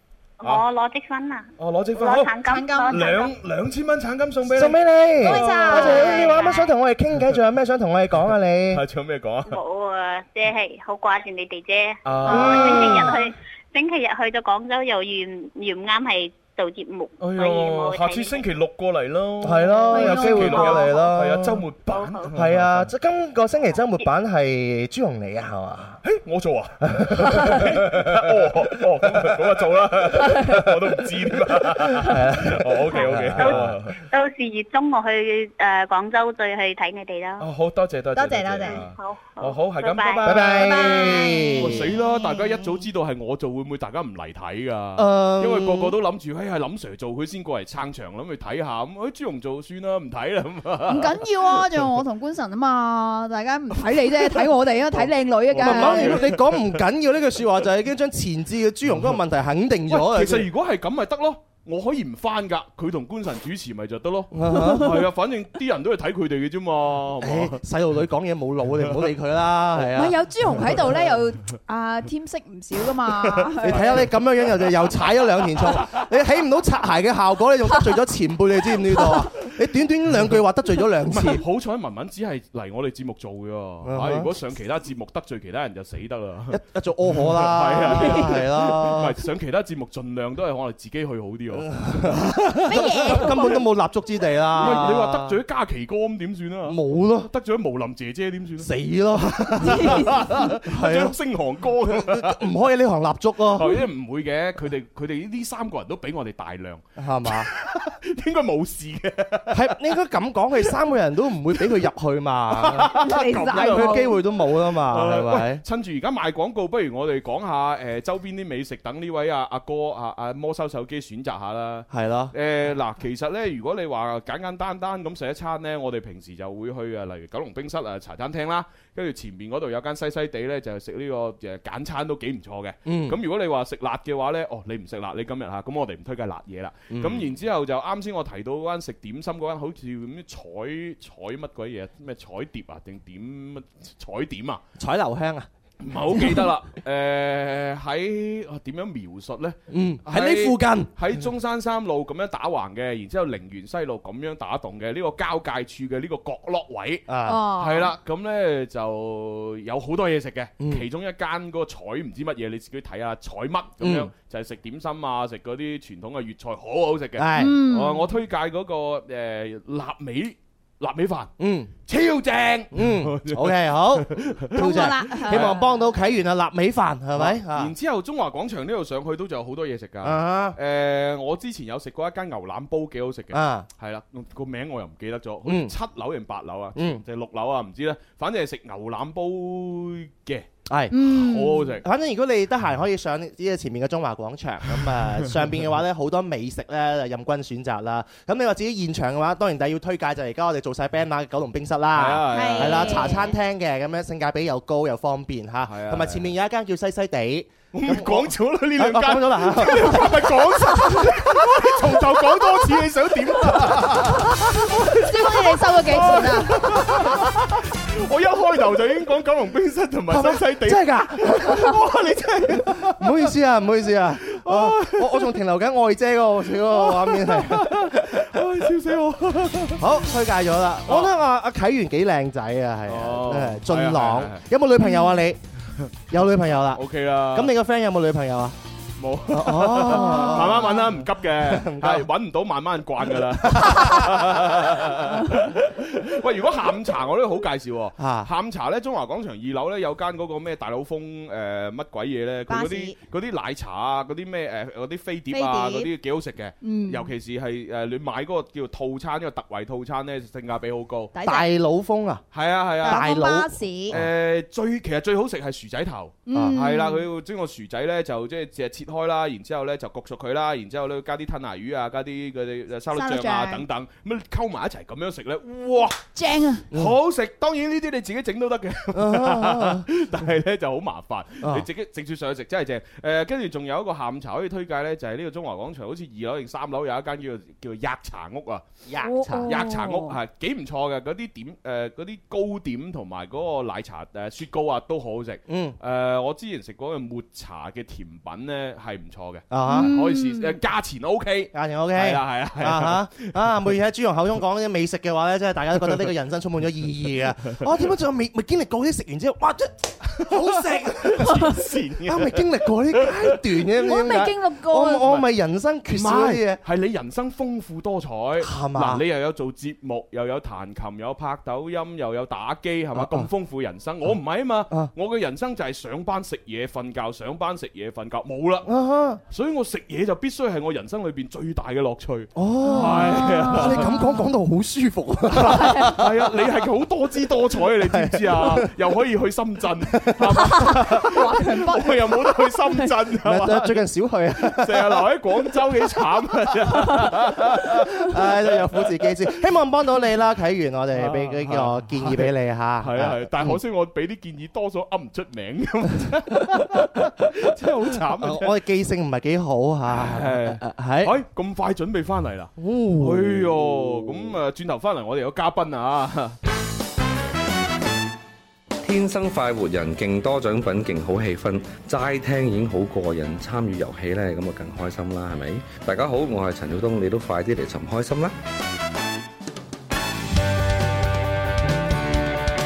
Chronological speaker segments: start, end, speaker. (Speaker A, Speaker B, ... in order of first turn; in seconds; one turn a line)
Speaker A: 0.4-3.3
Speaker B: 1.6-6.6
Speaker C: 2.5-3.0
Speaker D: 4.5-8.8
Speaker C: 5.2-6.7
Speaker B: 8.7-9.6
Speaker A: 9.5-18.4
Speaker B: 12.0-13.2
Speaker D: 12.3-13.2
Speaker B: 17.2-22.9
Speaker D: 19.4-21.6
Speaker C: 19.9-20.8
Speaker A: 21.9-22.3
Speaker D: 22.3-26.0
Speaker B: 26.0-34.0
Speaker D: 26.8-29.4
Speaker D: 31.8-33.8
Speaker A: 33.0-37.5
Speaker B: 37.4-51.9
Speaker A: 38.7-40.4
Speaker D: 40.2-41.9
Speaker D: 45.0-45.9
Speaker C: 50.9-56.3
Speaker B: 53.8-56.8
Speaker D: 55.6-60.5
Speaker B: 59.9-67.6
Speaker D: 64.3-65.0
Speaker C: 64.7-65.0
Speaker D: 67.2-70.2
Speaker C: 69.9-74.0
Speaker B: 73.2-74.1
Speaker D: 73.6-81.4
Speaker B: 81.1-86.6
Speaker D: 83.8-84.3
Speaker D: 86.5-89.2
Speaker B: 87.1-92.2
Speaker D: 91.5-95.4
Speaker C: 92.7-93.6
Speaker B: 94.6-102.4
Speaker D: 96.7-97.3
Speaker D: 98.6-101.1
Speaker C: 99.8-100.1
Speaker D: 101.9-103.8
Speaker B: 103.5-109.8
Speaker D: 107.0-107.5
Speaker D: 109.5-115.6
Speaker B: 112.5-114.2
Speaker C: 112.9-114.2
Speaker B: 114.7-144.6
Speaker D: 121.9-122.3
Speaker D: 132.8-133.2
Speaker D: 136.9-137.3
Speaker D: 144.8-145.5
Speaker B: 145.8-171.3
Speaker D: 146.1-146.5
Speaker D: 149.7-150.9
Speaker D: 157.1-157.5
Speaker C: 157.2-157.9
Speaker D: 160.6-160.9
Speaker D: 163.8-164.1
Speaker D: 167.2-167.6
Speaker C: 167.3-168.1
Speaker D: 171.4-171.7
Speaker B: 171.8-175.6
Speaker D: 172.7-177.7
Speaker C: 174.6-175.9
Speaker B: 177.1-191.8
Speaker D: 180.0-180.6
Speaker D: 183.3-183.7
Speaker D: 185.4-185.7
Speaker D: 186.7-187.0
Speaker D: 190.7-191.0
Speaker C: 190.9-191.8
Speaker D: 191.8-212.4
Speaker B: 201.9-203.2
Speaker C: 202.3-203.3
Speaker B: 205.7-206.3
Speaker B: 207.7-223.3
Speaker D: 213.5-214.2
Speaker C: 214.9-217.0
Speaker D: 220.1-221.7
Speaker D: 222.5-228.4
Speaker B: 224.2-225.4
Speaker B: 226.7-229.8
Speaker D: 229.8-235.4
Speaker B: 232.9-234.4
Speaker C: 234.8-235.2
Speaker D: 236.1-238.6
Speaker B: 236.7-237.5
Speaker B: 239.0-261.1
Speaker D: 239.3-242.1
Speaker C: 239.9-240.8
Speaker D: 243.4-244.7
Speaker D: 248.0-248.3
Speaker C: 252.5-253.0
Speaker C: 255.3-255.9
Speaker C: 256.6-257.1
Speaker C: 261.1-261.5
Speaker D: 261.2-262.2
Speaker B: 262.3-263.1
Speaker C: 262.8-263.9
Speaker D: 262.8-264.1
Speaker B: 263.9-276.0
Speaker C: 266.3-267.1
Speaker D: 266.3-266.6
Speaker C: 272.9-273.6
Speaker C: 276.1-276.7
Speaker B: 276.7-288.6
Speaker D: 278.9-279.9
Speaker D: 281.4-281.7
Speaker D: 288.9-289.6
Speaker C: 289.0-290.1
Speaker B: 289.4-303.4
Speaker D: 295.5-295.8
Speaker D: 299.5-299.9
Speaker C: 299.7-300.6
Speaker D: 301.5-311.5
Speaker B: 310.1-313.7
Speaker D: 312.0-316.6
Speaker C: 313.8-315.2
Speaker B: 315.9-328.7
Speaker D: 318.4-319.0
Speaker D: 322.9-323.3
Speaker D: 328.6-329.2
Speaker B: 329.3-333.9
Speaker D: 332.3-336.1
Speaker C: 332.6-334.3
Speaker B: 335.3-343.8
Speaker C: 335.5-335.9
Speaker D: 337.7-338.7
Speaker D: 339.9-341.0
Speaker C: 340.6-342.9
Speaker D: 343.2-345.1
Speaker B: 344.4-348.3
Speaker D: 347.6-353.6
Speaker B: 350.9-358.5
Speaker D: 356.4-356.9
Speaker D: 358.1-361.2
Speaker B: 359.9-366.4
Speaker D: 362.6-363.9
Speaker E: 368.8-378.3